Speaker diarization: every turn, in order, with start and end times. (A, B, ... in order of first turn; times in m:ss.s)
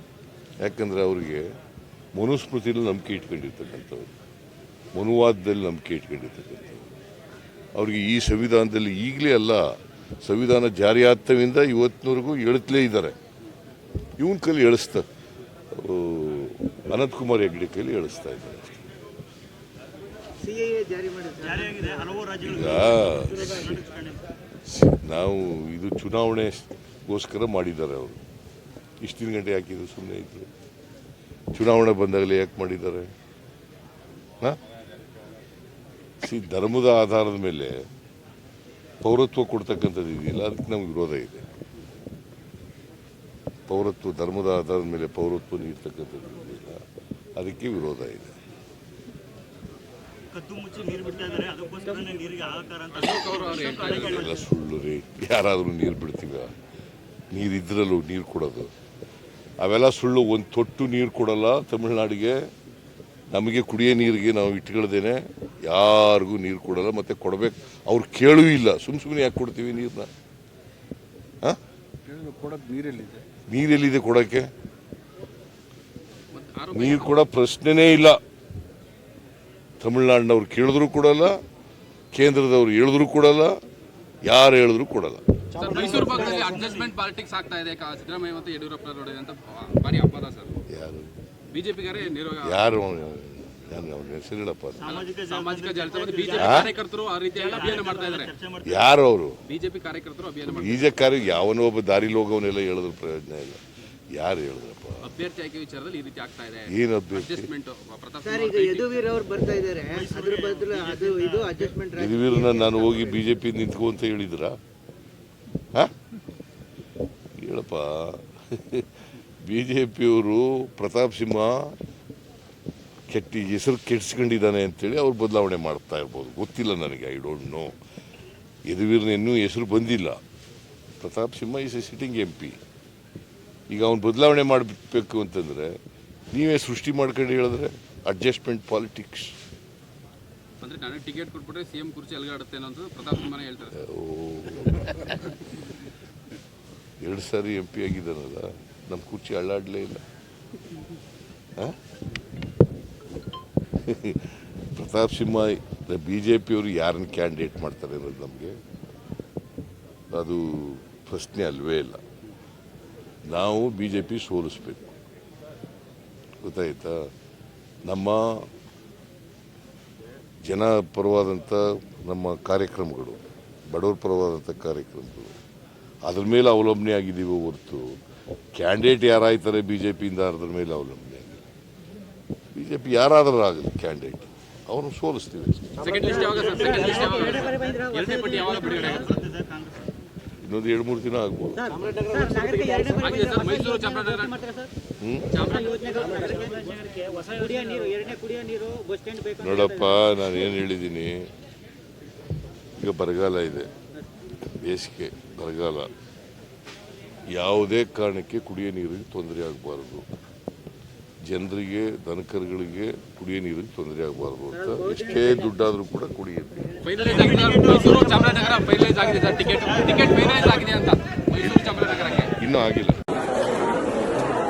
0:00.6-0:01.5 A
0:02.2-0:04.1 A
0:04.9-0:06.9 A
0:07.8-0:13.2 A
0:14.2-0:15.0 A
0:15.7-0:18.8 A
0:20.4-0:22.1 B
0:21.5-0:24.2 C
0:22.4-0:23.8 A
0:24.6-0:28.2 A
0:29.0-0:30.5 A
0:31.5-0:33.1 A
0:36.2-0:37.8 A
0:39.0-0:41.5 A
0:43.7-0:46.8 A
0:47.4-0:48.4 A
0:50.3-0:54.5 C
0:52.9-0:54.3 D
0:53.9-0:56.5 A
0:57.3-0:58.7 A
0:59.6-1:02.5 A
1:03.3-1:10.1 A
1:12.0-1:13.3 E
1:13.5-1:14.5 A
1:16.3-1:17.2 D
1:16.7-1:18.2 A
1:19.8-1:21.4 A
1:22.1-1:23.6 A
1:24.2-1:25.2 A
1:25.5-1:30.6 D
1:25.6-1:26.2 B
1:25.7-1:26.8 C
1:30.7-1:31.2 A
1:31.5-1:32.6 D
1:32.4-1:35.0 A
1:34.8-1:36.8 C
1:34.8-1:38.3 D
1:36.4-1:36.7 A
1:37.3-1:38.8 C
1:38.6-1:39.4 A
1:39.4-1:41.2 D
1:40.4-1:43.6 A
1:44.1-1:45.1 A
1:45.0-1:48.9 D
1:46.7-1:47.5 A
1:48.2-1:53.2 B
1:49.9-1:51.7 C
1:52.0-1:54.6 A
1:57.3-1:58.9 A
1:59.4-2:01.8 A
2:03.1-2:07.8 A
2:08.7-2:10.2 A
2:11.0-2:12.6 A
2:13.7-2:15.8 A
2:16.3-2:19.4 A
2:20.6-2:23.8 D
2:23.7-2:25.4 A
2:27.0-2:30.0 A
2:33.8-2:38.6 A
2:40.1-2:42.0 A
2:43.3-2:45.0 A
2:46.4-2:47.1 A
2:47.8-2:48.5 A
2:50.4-2:55.4 A
2:56.0-2:58.0 A
2:58.6-3:01.4 A
3:02.5-3:06.1 A
3:05.8-3:09.3 D
3:06.0-3:08.9 B
3:06.2-3:07.8 C
3:08.6-3:09.8 C
3:10.4-3:12.0 A
3:11.7-3:14.7 B
3:11.9-3:12.6 E
3:12.8-3:14.4 D
3:15.0-3:15.4 A
3:15.3-3:16.5 D
3:15.4-3:19.4 B
3:19.4-3:21.3 A
3:22.8-3:23.7 A
3:24.4-3:25.9 A
3:27.3-3:30.1 A
3:31.2-3:36.7 A
3:34.6-3:35.5 B
3:36.8-3:42.3 D
3:37.0-3:38.5 C
3:39.4-3:40.7 C
3:41.4-3:41.6 A
3:42.4-3:43.0 A